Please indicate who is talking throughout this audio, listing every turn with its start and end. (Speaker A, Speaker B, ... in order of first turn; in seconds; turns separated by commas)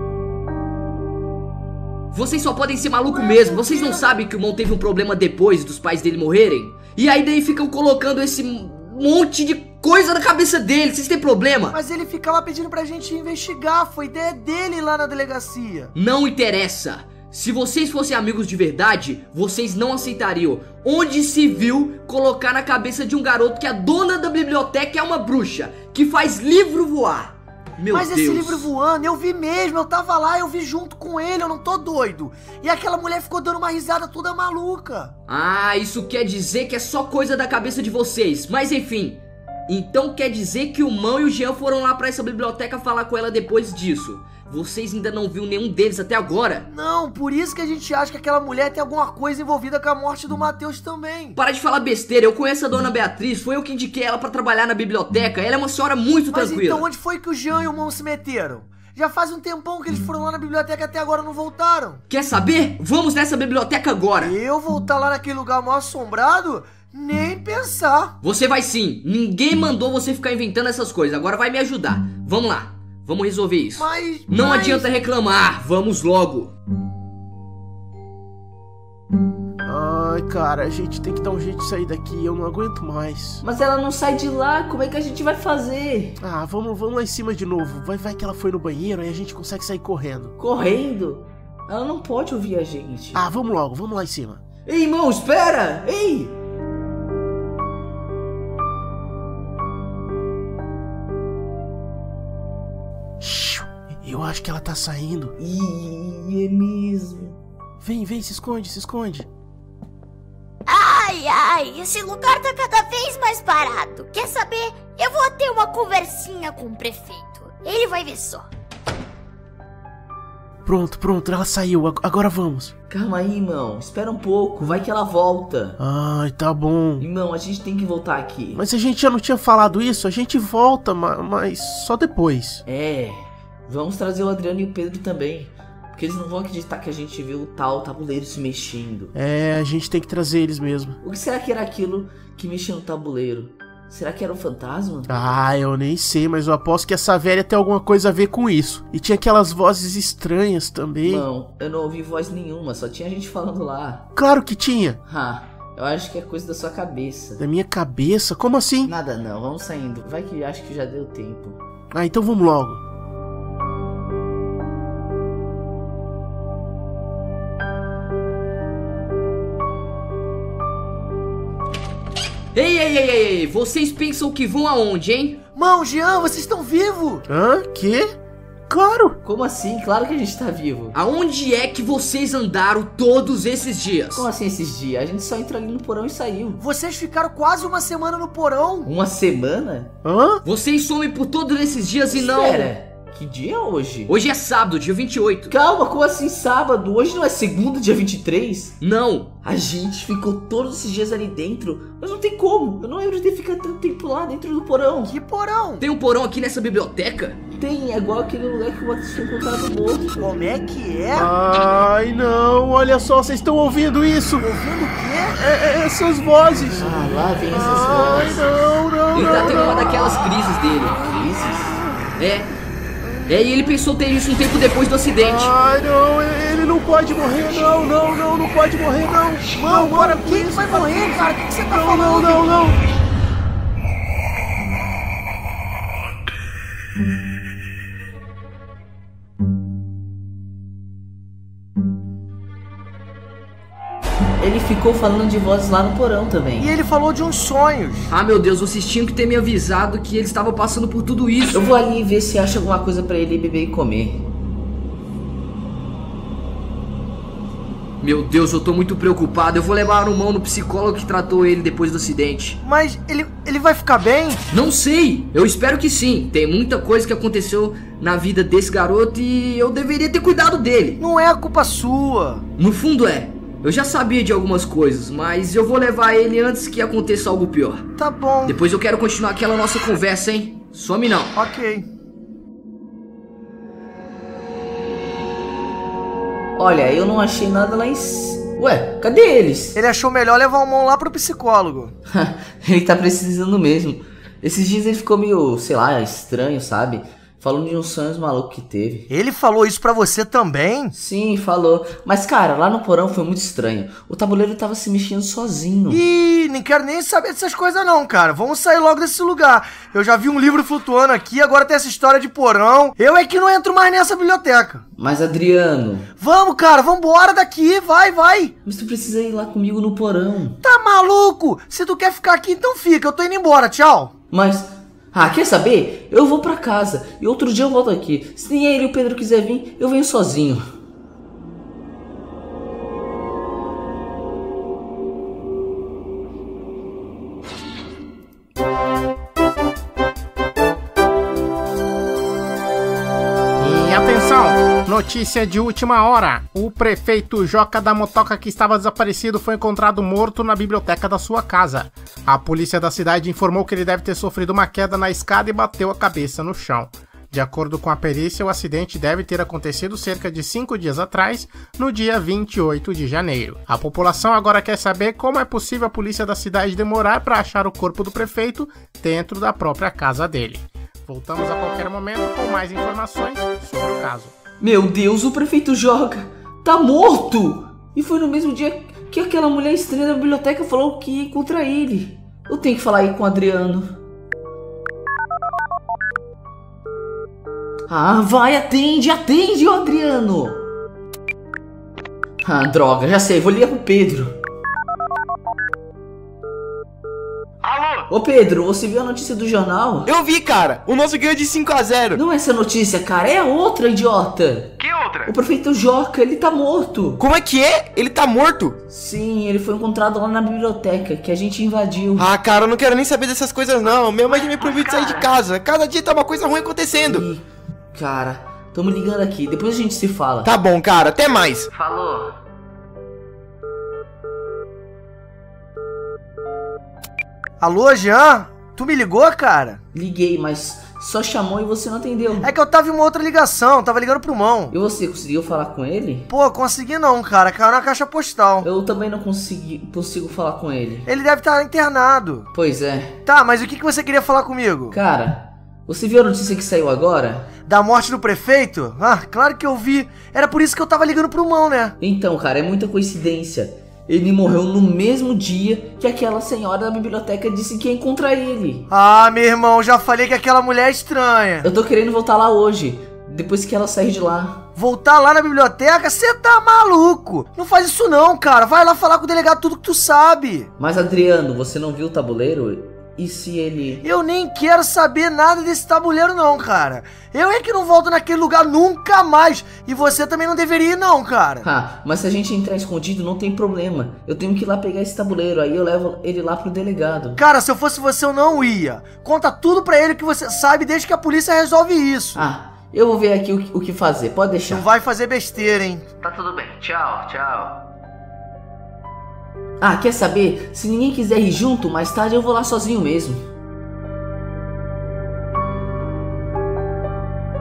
Speaker A: 2.1-11.8, Speaker B: 3.1-4.0, Speaker B: 11.7-15.9, Speaker A: 15.9-28.7, Speaker B: 27.9-35.1, Speaker A: 35.3-46.7, Speaker B: 46.7-51.4, Speaker A: 51.4-56.9, Speaker B: 56.3-62.0, Speaker A: 62.1-64.4, Speaker B: 64.2-68.2, Speaker A: 68.2-76.5, Speaker B: 73.8-74.9, Speaker C: 79.6-83.4, Speaker D: 83.4-86.2, Speaker C: 86.2-90.3, Speaker D: 90.4-93.2, Speaker C: 93.1-94.4, Speaker D: 94.7-96.3, Speaker C: 103.2-105.3, Speaker D: 105.4-107.4, Speaker C: 107.8-109.3, Speaker E: 110.7-118.5, Speaker C: 120.6-122.7, Speaker D: 122.9-125.8, Speaker C: 125.8-127.0, Speaker D: 127.0-128.6, Speaker C: 128.5-132.6, Speaker D: 132.7-139.1, Speaker C: 139.1-141.0, Speaker D: 141.0-145.1, Speaker C: 145.1-151.3, Speaker D: 151.0-154.1, Speaker C: 154.1-155.0, Speaker D: 155.1-157.4, Speaker C: 157.4-158.9, Speaker D: 158.8-161.6, Speaker C: 161.9-162.8, Speaker A: 172.5-175.4, Speaker B: 175.6-177.2, Speaker C: 177.3-178.2, Speaker C: 178.7-179.2, Speaker D: 179.2-180.9, Speaker A: 180.9-184.3, Speaker D: 184.1-186.6, Speaker B: 186.6-188.9, Speaker D: 188.8-189.9, Speaker C: 190.0-190.4, Speaker A: 190.4-192.7, Speaker D: 192.1-194.1, Speaker A: 194.1-195.5, Speaker D: 195.5-198.8, Speaker A: 198.8-199.4, Speaker D: 199.4-205.1, Speaker B: 205.1-205.8, Speaker A: 205.8-207.4, Speaker D: 207.6-210.2, Speaker B: 210.2-211.3, Speaker C: 211.1-214.5, Speaker B: 214.4-215.4, Speaker C: 215.4-220.3, Speaker D: 216.8-218.6, Speaker A: 219.1-221.0, Speaker D: 220.9-221.8, Speaker C: 221.0-222.1, Speaker A: 222.2-222.5, Speaker C: 223.1-223.3, Speaker A: 223.3-225.5, Speaker C: 225.2-232.8, Speaker B: 229.5-232.4, Speaker D: 244.4-246.7, Speaker B: 246.6-248.1, Speaker A: 248.1-251.6, Speaker D: 251.5-254.3, Speaker A: 258.0-262.6, Speaker B: 262.6-264.4, Speaker A: 264.5-271.0, Speaker B: 271.0-272.4, Speaker A: 272.6-277.9, Speaker B: 278.0-278.6, Speaker A: 278.4-281.3, Speaker B: 281.3-281.9, Speaker D: 286.6-289.8, Speaker B: 289.8-291.9, Speaker D: 292.1-299.1, Speaker B: 299.1-300.9, Speaker D: 300.9-306.0, Speaker B: 305.9-314.8, Speaker D: 315.0-316.1, Speaker B: 316.2-318.6, Speaker D: 318.7-320.6, Speaker B: 320.6-324.1, Speaker D: 324.3-330.7, Speaker F: 343.6-374.4, Speaker D: 374.6-384.0, Speaker D: 387.9-390.6, Speaker D: 392.4-394.3, Speaker G: 397.6-398.1, Speaker D: 398.1-400.1, Speaker G: 400.1-402.2, Speaker D: 402.1-404.7, Speaker G: 404.8-405.3, Speaker D: 405.2-407.2, Speaker G: 407.2-408.8, Speaker D: 408.9-412.3, Speaker G: 412.2-417.3, Speaker D: 414.6-415.3, Speaker D: 417.1-420.5, Speaker G: 420.4-421.7, Speaker D: 421.7-422.4, Speaker B: 427.6-429.8, Speaker D: 429.9-432.5, Speaker B: 432.4-434.7, Speaker D: 434.7-436.3, Speaker B: 436.3-438.7, Speaker D: 438.6-441.1, Speaker B: 441.1-442.5, Speaker D: 442.5-443.1, Speaker B: 443.3-445.0, Speaker D: 444.9-447.5, Speaker B: 447.7-451.9, Speaker D: 452.0-458.9, Speaker B: 458.9-461.7, Speaker D: 461.6-464.6, Speaker B: 464.8-470.7, Speaker D: 470.8-474.0, Speaker B: 474.0-481.6, Speaker D: 481.6-487.4, Speaker B: 487.4-492.4, Speaker D: 492.3-494.8, Speaker B: 494.7-496.1, Speaker D: 496.2-497.8, Speaker D: 499.8-503.5